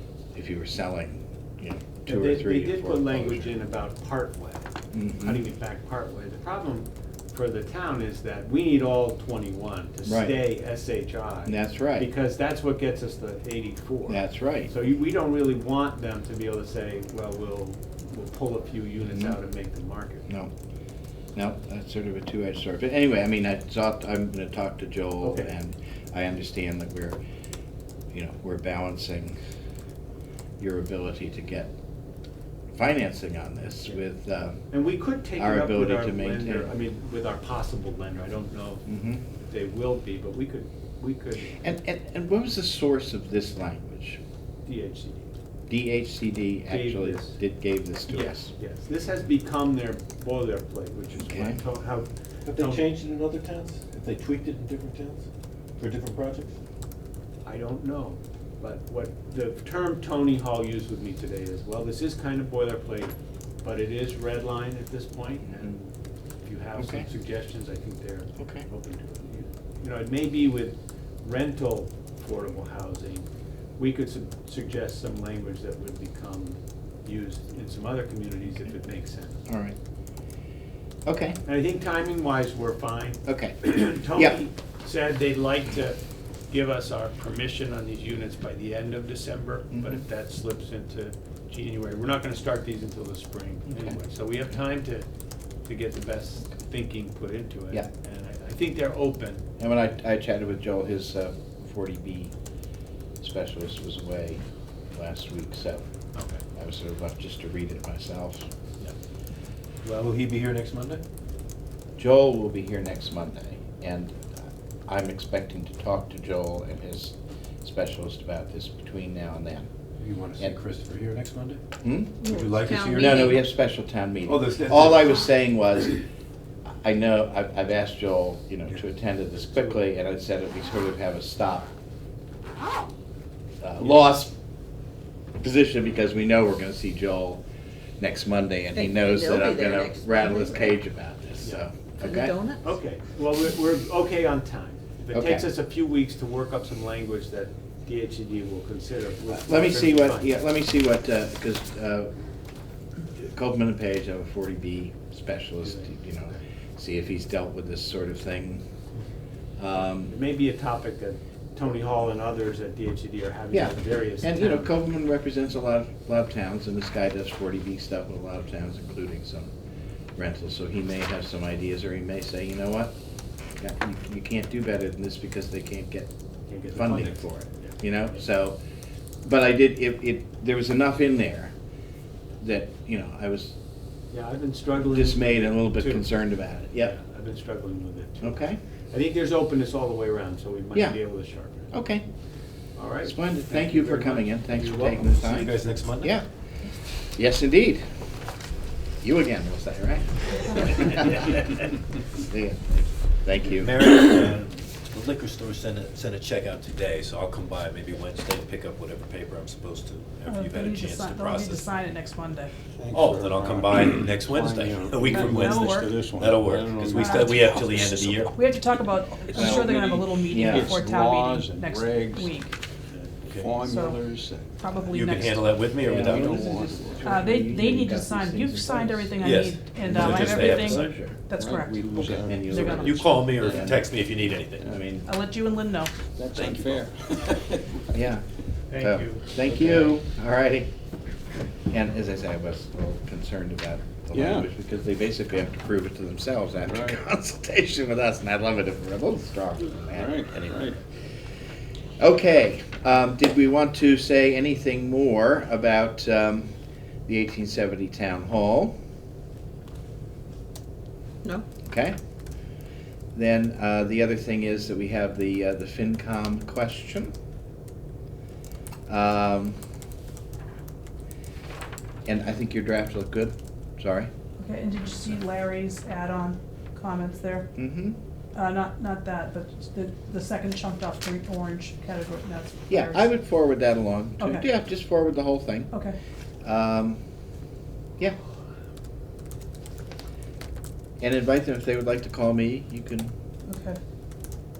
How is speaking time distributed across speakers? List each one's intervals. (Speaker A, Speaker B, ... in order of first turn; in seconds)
Speaker A: 0.3-3.5, 4.9-5.4, 10.1-10.4, 11.4-12.1, 14.1-14.7, 19.0-19.4, 21.4-27.2, 28.1-29.4, 30.6-31.7, 32.7-34.6, 35.4-36.7, 38.9-39.2, 41.6-44.2, 45.7-48.5, 51.2-51.6, 66.8-67.1, 68.4-68.7, 79.5-79.8, 81.0-81.4, 83.2-84.4, 89.7-90.0, 93.7-94.0, 99.6-102.3, 103.2-104.4, 104.9-105.8, 106.5-108.5, 112.0-114.3, 114.9-119.7, 121.8-122.2, 122.9-126.0, 126.8-131.7, 133.6-134.3, 135.4-137.4, 138.0-142.4, 145.1-145.5, 149.4-152.1, 153.2-158.6, 159.6-160.1, 163.5-169.5, 170.2-172.9, 173.6-176.1, 176.7-178.6, 179.2-181.5, 182.4-183.5, 184.9-186.9, 188.2-188.6, 191.7-192.0, 193.0-196.2, 197.2-197.8, 199.0-201.4, 202.2-203.7, 219.3-220.8, 225.8-229.2, 229.8-231.2, 231.9-233.8, 234.6-235.1, 237.9-238.2, 238.8-240.7, 241.7-250.7, 252.0-256.5, 257.1-258.7, 261.6-261.9, 263.1-267.1, 268.9-269.6, 272.1-274.1, 277.6-277.9, 282.7-285.7, 286.4-287.0, 291.0-293.1
Speaker B: 2.1-20.2, 25.2-25.5, 34.7-41.7, 44.6-45.3, 46.7-47.4, 48.1-52.9, 57.4-65.9, 66.4-73.2, 73.8-79.4, 81.4-95.0, 95.6-99.4, 129.5-129.8, 141.4-141.7, 142.6-150.3, 155.6-156.4, 160.1-164.7, 176.5-178.2, 184.1-186.1, 186.8-191.7, 192.8-195.5, 238.7-239.3
Speaker C: 52.4-55.2, 55.8-56.5, 106.1-106.4, 109.8-111.0, 120.0-121.6, 122.2-123.5, 124.2-125.4, 195.0-196.1, 203.5-211.7, 212.9-218.3, 222.9-223.7, 224.8-226.7, 229.2-231.0, 232.7-234.7, 236.3-236.8
Speaker D: 138.8-140.7, 142.0-142.5
Speaker E: 210.3-212.5, 215.0-216.0, 216.9-222.5, 223.6-225.5, 227.0-233.4, 235.0-236.0, 274.4-277.5, 278.3-283.1, 284.2-284.5, 285.7-286.0, 293.4-293.8
Speaker F: 212.7-217.7, 219.4-222.3, 223.3-224.5, 226.0-227.2, 231.4-232.6, 233.4-233.7, 236.1-237.8, 239.4-240.0, 244.1-244.5, 246.7-247.0, 249.9-250.8